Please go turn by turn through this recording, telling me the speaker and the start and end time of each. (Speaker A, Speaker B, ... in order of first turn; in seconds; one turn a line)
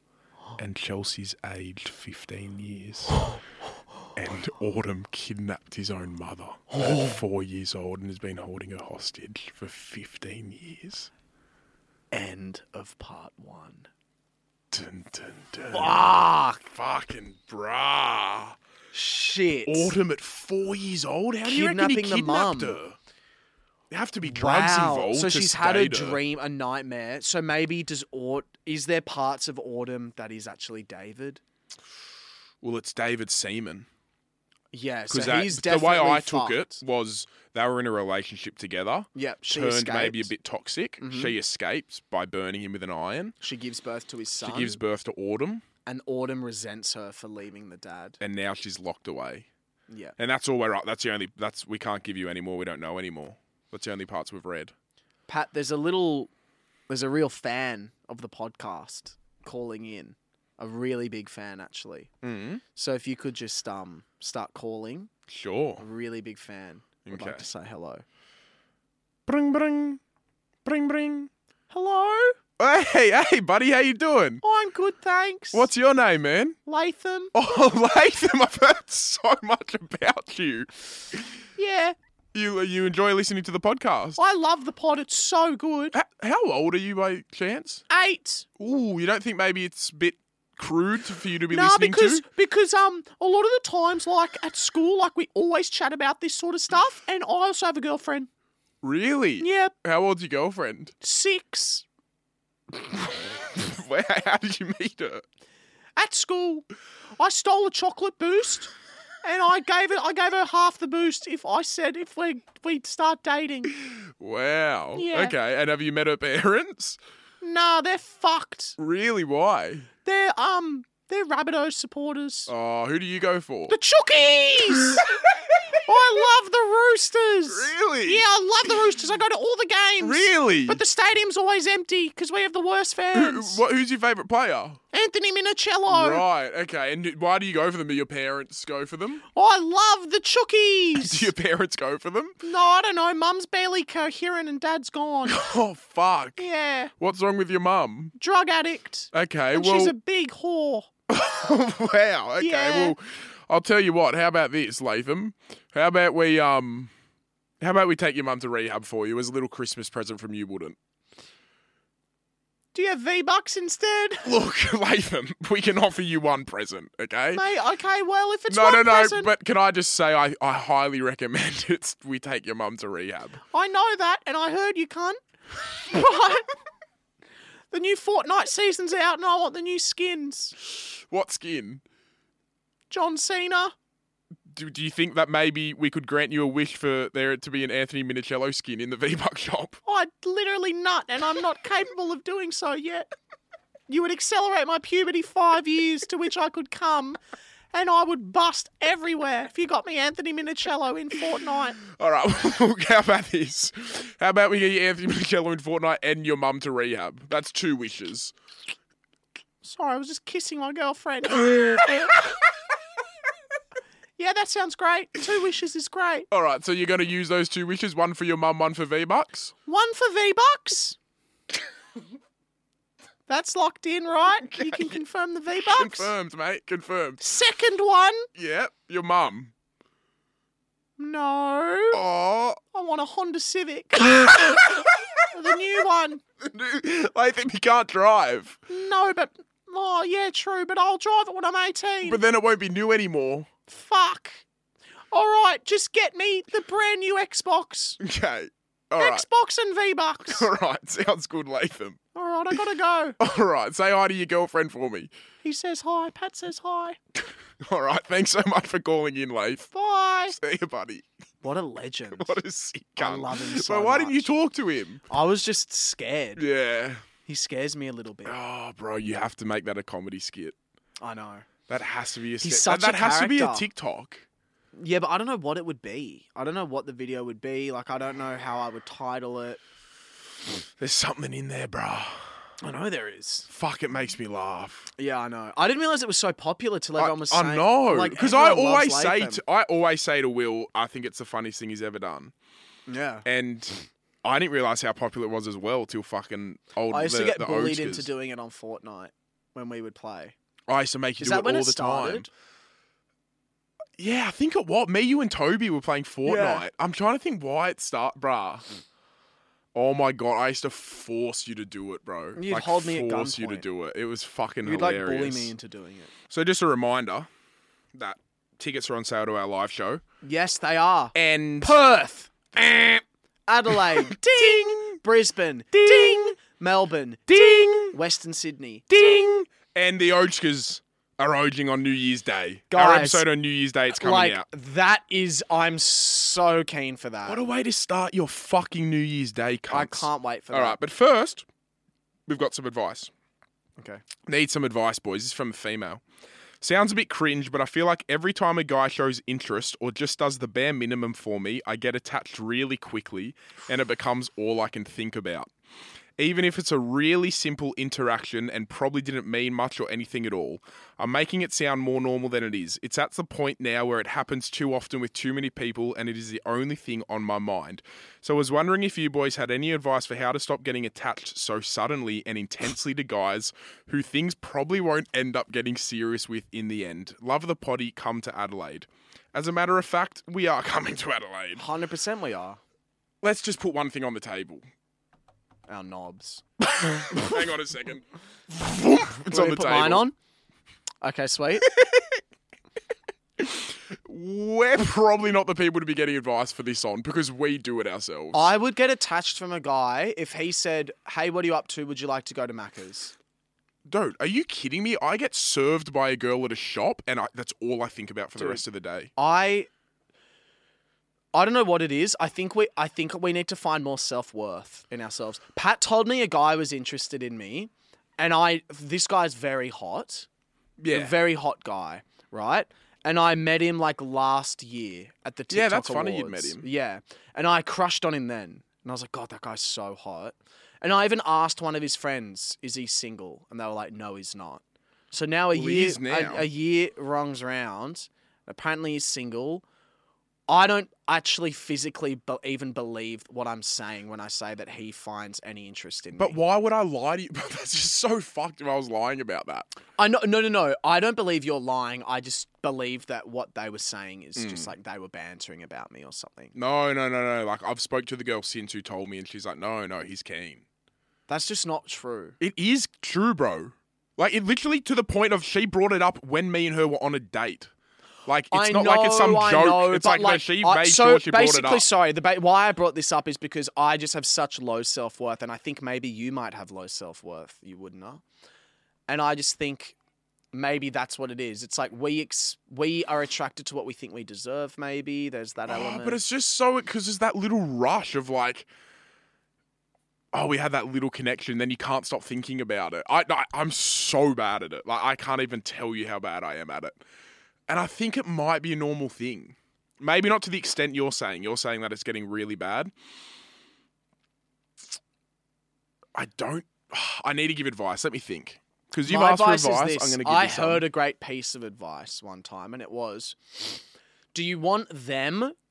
Speaker A: 0.6-3.3
Speaker A: 4.2-11.1
Speaker B: 12.1-13.9
Speaker A: 14.7-18.6
Speaker B: 15.7-16.6
Speaker B: 18.9-20.0
Speaker A: 19.6-23.0
Speaker B: 21.4-22.8
Speaker A: 23.9-26.2
Speaker B: 24.2-31.4
Speaker A: 32.6-33.9
Speaker B: 34.7-36.8
Speaker A: 35.1-43.4
Speaker B: 39.1-40.3
Speaker B: 41.0-41.3
Speaker B: 43.4-44.8
Speaker A: 44.4-45.6
Speaker B: 45.9-48.2
Speaker A: 48.2-49.5
Speaker B: 49.9-50.1
Speaker A: 50.2-54.7
Speaker B: 55.3-56.3
Speaker B: 56.9-62.1
Speaker A: 62.2-62.6
Speaker B: 62.7-65.1
Speaker A: 65.3-65.8
Speaker B: 65.8-68.0
Speaker A: 67.0-67.5
Speaker A: 69.3-70.0
Speaker A: 70.6-71.3
Speaker B: 71.7-72.4
Speaker A: 72.6-74.4
Speaker B: 74.4-75.7
Speaker A: 75.5-76.6
Speaker B: 76.7-77.3
Speaker A: 77.3-81.3
Speaker B: 81.6-82.0
Speaker A: 82.3-84.2
Speaker B: 84.2-85.9
Speaker A: 85.9-87.8
Speaker B: 87.9-88.5
Speaker A: 88.6-92.2
Speaker B: 91.5-98.3
Speaker A: 98.8-100.9
Speaker B: 99.4-99.7
Speaker B: 101.0-101.8
Speaker A: 102.9-105.2
Speaker B: 106.0-106.7
Speaker B: 107.2-108.7
Speaker B: 109.2-113.7
Speaker A: 113.7-117.0
Speaker B: 114.9-115.3
Speaker B: 117.4-118.8
Speaker A: 118.8-119.9
Speaker B: 120.0-122.5
Speaker A: 122.5-123.8
Speaker B: 123.7-125.1
Speaker A: 124.8-125.8
Speaker B: 125.8-133.6
Speaker A: 127.5-128.2
Speaker A: 130.0-130.8
Speaker A: 133.1-134.8
Speaker B: 134.9-136.2
Speaker A: 135.9-139.2
Speaker B: 139.3-141.3
Speaker A: 140.9-142.4
Speaker B: 142.4-145.5
Speaker A: 145.2-146.4
Speaker B: 146.4-146.9
Speaker A: 147.0-148.1
Speaker B: 148.2-150.9
Speaker A: 149.1-149.9
Speaker A: 151.1-156.9
Speaker B: 152.4-152.9
Speaker A: 157.6-160.8
Speaker B: 162.7-164.3
Speaker A: 164.2-167.4
Speaker B: 167.3-169.3
Speaker A: 168.5-173.4
Speaker B: 173.5-176.5
Speaker B: 177.7-180.5
Speaker A: 180.8-181.8
Speaker B: 182.9-183.7
Speaker A: 184.5-189.8
Speaker B: 189.8-193.1
Speaker B: 193.9-197.2
Speaker B: 197.7-201.8
Speaker A: 201.8-208.3
Speaker B: 209.6-212.3
Speaker A: 211.4-212.2
Speaker B: 214.2-216.3
Speaker A: 216.3-219.5
Speaker B: 219.7-221.0
Speaker B: 223.3-226.1
Speaker A: 224.5-224.9
Speaker A: 225.6-227.2
Speaker B: 227.2-228.3
Speaker A: 228.3-229.5
Speaker B: 231.0-232.0
Speaker A: 231.9-232.6
Speaker B: 232.7-236.2
Speaker A: 234.2-235.2
Speaker A: 236.4-238.6
Speaker B: 238.7-242.2
Speaker A: 242.0-243.5
Speaker B: 243.7-244.4
Speaker B: 245.1-248.0
Speaker A: 248.0-249.2
Speaker B: 249.0-250.5
Speaker A: 250.2-252.0
Speaker B: 252.1-253.2
Speaker A: 253.2-255.1
Speaker B: 255.4-257.0
Speaker A: 257.6-259.7
Speaker B: 259.7-260.4
Speaker A: 260.3-261.1
Speaker B: 261.4-262.4
Speaker A: 262.1-265.0
Speaker B: 263.0-264.3
Speaker B: 265.1-266.4
Speaker A: 266.4-267.1
Speaker B: 267.2-268.3
Speaker A: 268.2-270.6
Speaker B: 271.0-271.5
Speaker A: 271.7-274.2
Speaker B: 272.4-273.6
Speaker B: 274.8-279.6
Speaker A: 280.8-282.4
Speaker B: 282.6-283.5
Speaker A: 283.5-284.9
Speaker B: 285.0-289.4
Speaker A: 287.0-292.3
Speaker B: 292.9-293.2
Speaker A: 293.2-298.1
Speaker B: 296.9-300.3
Speaker A: 300.7-302.3
Speaker B: 301.2-302.3
Speaker A: 304.0-308.6
Speaker B: 306.2-306.6
Speaker A: 309.7-315.5
Speaker B: 312.4-313.6
Speaker B: 314.6-316.1
Speaker A: 316.3-317.3
Speaker A: 317.9-320.0
Speaker B: 320.2-322.9
Speaker A: 321.1-321.8
Speaker A: 322.6-323.0
Speaker B: 323.5-328.8
Speaker A: 323.7-325.0
Speaker A: 325.7-326.3
Speaker A: 327.3-328.0
Speaker A: 328.9-334.4
Speaker B: 332.7-333.2
Speaker B: 333.9-337.4
Speaker A: 337.2-341.4
Speaker B: 339.7-340.8
Speaker A: 342.3-343.1
Speaker A: 344.2-346.0
Speaker A: 346.6-355.5
Speaker A: 356.2-381.6
Speaker B: 381.6-382.6
Speaker A: 383.2-384.6
Speaker B: 385.7-387.4
Speaker A: 386.8-390.1
Speaker B: 389.3-390.1
Speaker B: 391.0-391.7
Speaker A: 391.6-392.2
Speaker A: 393.4-398.5
Speaker B: 398.3-403.1
Speaker A: 403.9-409.1
Speaker B: 408.4-408.6
Speaker B: 409.1-409.7
Speaker B: 411.3-420.3
Speaker A: 420.8-421.1
Speaker B: 420.9-439.6
Speaker A: 425.5-426.6
Speaker A: 435.5-436.5
Speaker B: 440.5-446.4
Speaker A: 446.2-449.7
Speaker B: 450.0-456.5
Speaker A: 454.4-454.7
Speaker A: 456.5-460.6
Speaker B: 461.3-462.4
Speaker A: 462.4-467.7
Speaker A: 468.2-471.9
Speaker B: 468.5-478.2
Speaker B: 479.1-479.9
Speaker B: 480.5-486.2
Speaker A: 485.7-488.7
Speaker A: 490.3-497.0
Speaker A: 497.7-502.9
Speaker A: 506.1-510.9
Speaker B: 509.0-513.8
Speaker B: 514.3-515.5